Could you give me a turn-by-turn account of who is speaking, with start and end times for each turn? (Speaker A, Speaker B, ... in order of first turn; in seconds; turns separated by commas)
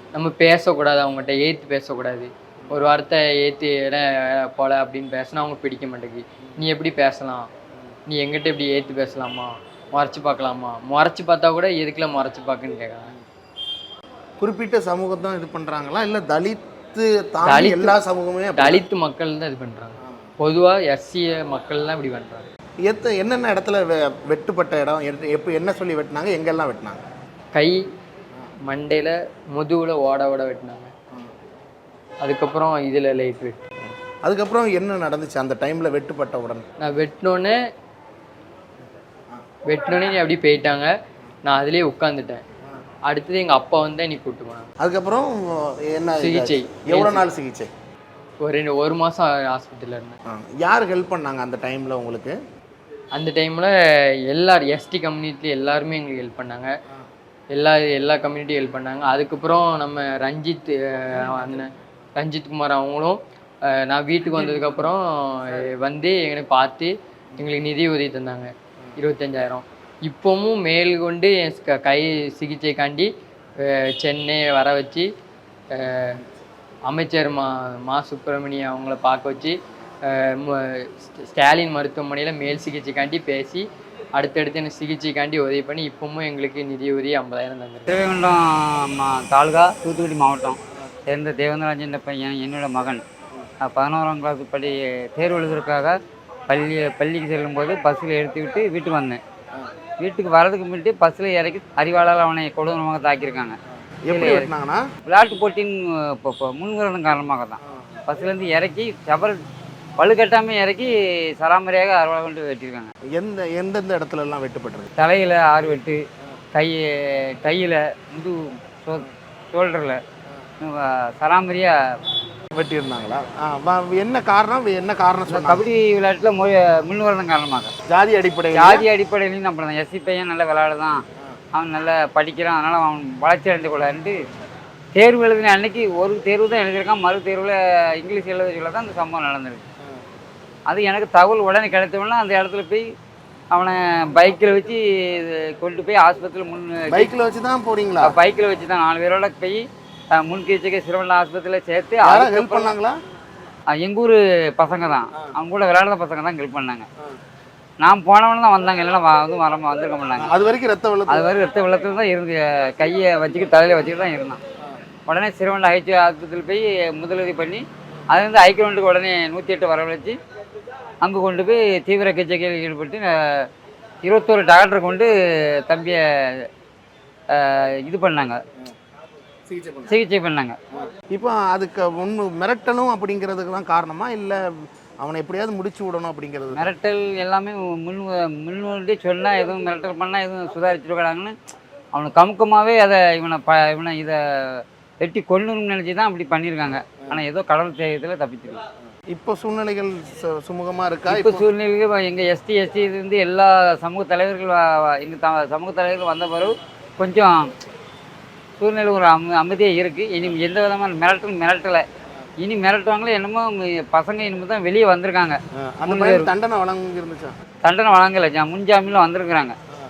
Speaker A: 0.1-7.5, Speaker A: 8.1-13.1, Speaker B: 14.4-18.8, Speaker A: 17.4-17.9, Speaker A: 18.6-22.5, Speaker B: 22.9-27.0, Speaker A: 27.5-27.8, Speaker A: 28.7-30.9, Speaker A: 32.2-33.6, Speaker B: 33.9-36.6, Speaker A: 36.8-37.5, Speaker A: 39.7-40.9, Speaker A: 41.4-42.4, Speaker A: 43.1-44.7, Speaker B: 44.8-47.7, Speaker A: 46.2-47.2, Speaker A: 48.4-50.2, Speaker B: 50.3-52.3, Speaker A: 53.1-53.7, Speaker A: 54.3-56.7, Speaker A: 57.5-63.2, Speaker A: 63.7-73.1, Speaker A: 73.6-75.1, Speaker A: 75.7-76.2, Speaker A: 76.9-79.5, Speaker A: 80.1-83.6, Speaker A: 84.2-87.9, Speaker C: 87.9-93.0, Speaker C: 93.6-95.9, Speaker C: 96.5-99.2, Speaker C: 100.0-103.6, Speaker B: 104.0-104.8, Speaker C: 104.1-104.5, Speaker C: 105.0-109.4, Speaker C: 110.0-112.9, Speaker B: 113.1-114.9, Speaker C: 115.0-116.0, Speaker C: 116.5-120.0, Speaker C: 120.6-121.7, Speaker B: 122.5-125.6, Speaker C: 125.3-127.7, Speaker B: 127.9-128.8, Speaker C: 128.5-131.0, Speaker C: 131.5-134.2, Speaker C: 134.9-139.6, Speaker C: 140.7-142.8, Speaker C: 143.5-147.1, Speaker B: 146.9-148.1, Speaker C: 148.0-149.6, Speaker C: 150.1-152.7, Speaker B: 152.0-152.9, Speaker C: 153.8-156.8, Speaker C: 157.8-160.3, Speaker B: 160.2-161.2, Speaker C: 161.1-164.4, Speaker C: 165.1-170.2, Speaker C: 171.0-173.1, Speaker C: 174.0-175.1, Speaker C: 175.6-176.4, Speaker C: 177.3-178.4, Speaker B: 179.5-179.9, Speaker C: 179.9-180.6, Speaker B: 181.1-186.7, Speaker C: 186.5-191.3, Speaker C: 191.9-198.6, Speaker B: 199.1-201.4, Speaker C: 201.1-207.5, Speaker C: 208.6-211.8, Speaker C: 212.4-216.3, Speaker B: 215.6-217.3, Speaker C: 217.6-219.5